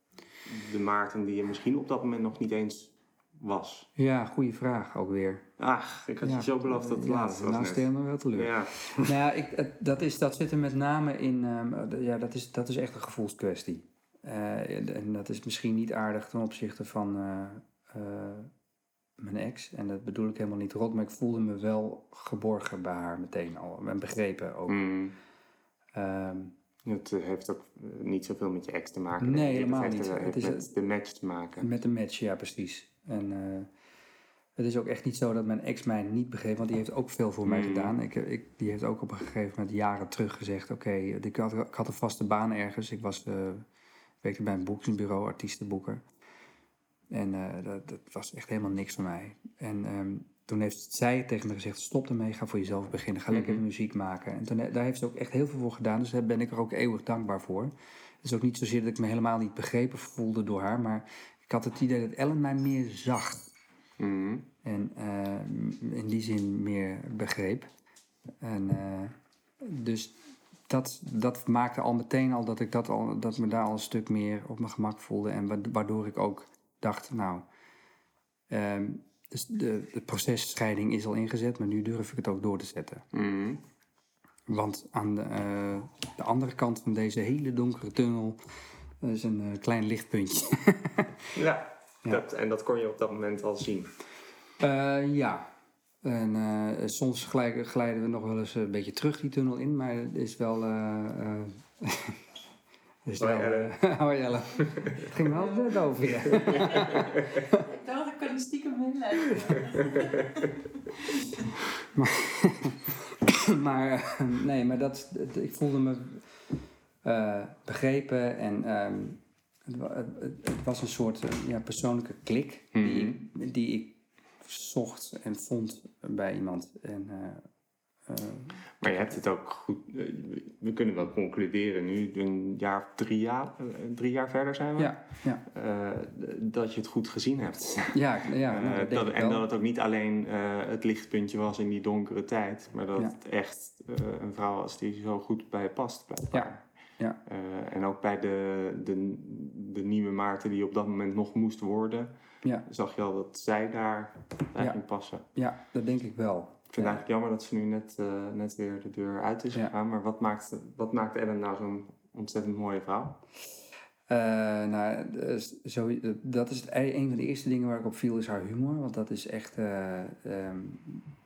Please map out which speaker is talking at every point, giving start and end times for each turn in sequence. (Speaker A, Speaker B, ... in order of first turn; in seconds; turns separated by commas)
Speaker A: 0.5-3.9, Speaker B: 4.0-5.5, Speaker A: 5.6-9.1, Speaker B: 6.2-18.5, Speaker B: 19.2-24.8, Speaker A: 24.7-25.2, Speaker B: 25.9-26.6, Speaker A: 26.9-31.7, Speaker B: 29.2-30.7, Speaker B: 31.6-33.7, Speaker B: 34.6-43.6, Speaker A: 37.5-38.0, Speaker B: 44.2-46.0, Speaker B: 47.1-63.5, Speaker A: 53.3-53.6, Speaker A: 64.0-64.5, Speaker B: 64.6-67.7, Speaker B: 68.4-70.2, Speaker B: 70.7-77.5, Speaker B: 78.5-83.1, Speaker A: 83.1-83.6, Speaker B: 84.5-88.4, Speaker B: 89.0-91.3, Speaker A: 91.3-93.9, Speaker B: 94.6-95.5, Speaker B: 96.0-102.2, Speaker B: 103.1-107.7, Speaker A: 103.2-103.8, Speaker A: 104.6-105.1, Speaker A: 106.3-107.2, Speaker C: 107.6-109.9, Speaker A: 109.4-110.0, Speaker B: 111.9-116.3, Speaker B: 117.0-127.5, Speaker A: 122.8-123.2, Speaker B: 128.1-129.2, Speaker A: 128.8-146.6, Speaker B: 134.8-135.4, Speaker B: 137.9-139.5, Speaker B: 146.3-147.2, Speaker A: 147.2-152.1, Speaker A: 152.7-155.2, Speaker B: 154.6-157.0, Speaker A: 156.7-163.2, Speaker B: 164.1-171.1